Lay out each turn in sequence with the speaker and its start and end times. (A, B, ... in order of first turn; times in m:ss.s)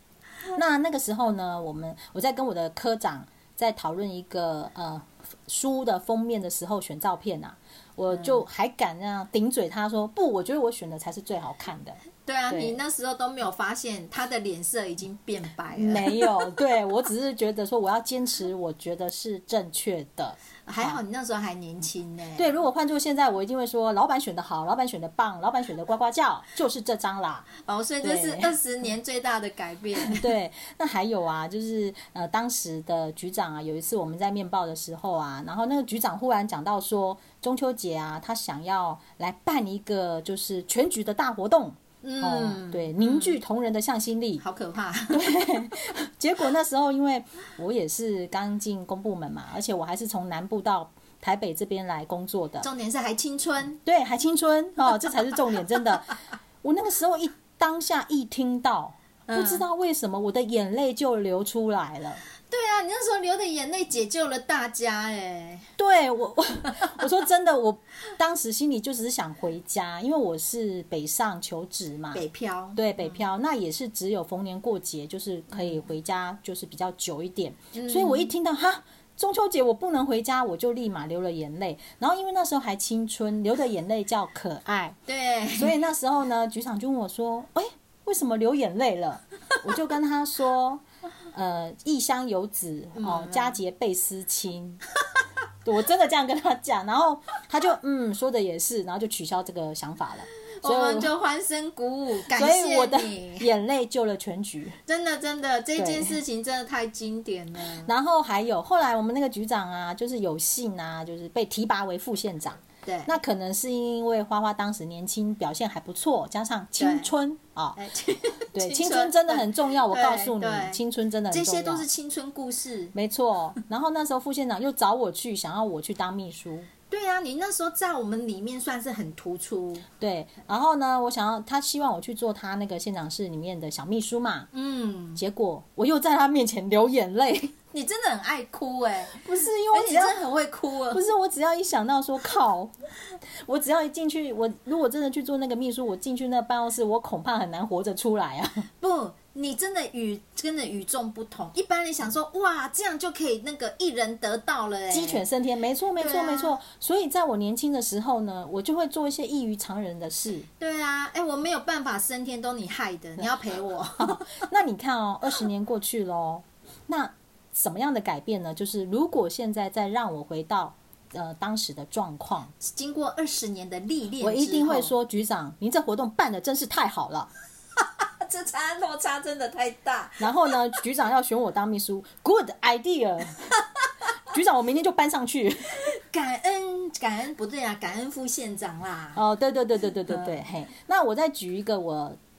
0:00.5-0:12.0 A
0:08.1-0:08.4 B
0:12.2-0:16.3 B
0:12.5-0:12.8 A
0:15.8-0:21.0 A
0:20.6-0:22.5 B
0:22.4-0:27.5 A
0:27.6-0:30.3 B
0:28.0-0:28.5 A
0:30.0-0:44.4 A
0:42.0-0:43.4 B
0:44.4-0:45.3 B
0:45.1-0:52.6 A
0:52.6-0:53.8 B
0:53.8-1:02.2 A
0:59.3-0:59.6 B
1:02.5-1:05.7 B
1:05.8-1:12.2 A
1:12.1-1:13.2 B
1:12.8-1:25.0 A
1:17.7-1:18.3 B
1:25.1-1:25.8 B
1:25.6-1:30.8 A
1:31.3-1:34.8 A
1:33.0-1:33.6 B
1:35.6-1:41.1 A
1:40.6-1:43.5 B
1:42.3-1:44.8 A
1:44.9-1:47.9 B
1:45.8-1:46.2 A
1:47.8-1:57.8 A
1:52.8-1:53.1 B
1:56.8-1:57.1 B
1:57.8-2:02.9 B
1:58.5-2:01.8 A
2:02.9-2:06.7 A
2:06.9-2:09.8 B
2:10.0-2:14.5 A
2:14.5-2:15.2 B
2:15.2-2:17.5 A
2:17.7-2:19.2 B
2:19.1-2:20.2 A
2:19.7-2:21.0 B
2:20.9-2:22.7 A
2:23.4-2:28.6 A
2:28.8-2:35.2 B
2:34.9-2:40.5 A
2:36.0-2:36.6 B
2:40.6-2:44.4 B
2:44.0-2:52.5 A
2:52.6-2:54.9 B
2:54.2-2:57.3 A
2:57.8-3:00.2 B
3:00.2-3:03.5 A
3:04.3-3:05.8 A
3:05.9-3:09.2 B
3:09.1-3:12.2 A
3:10.1-3:10.4 B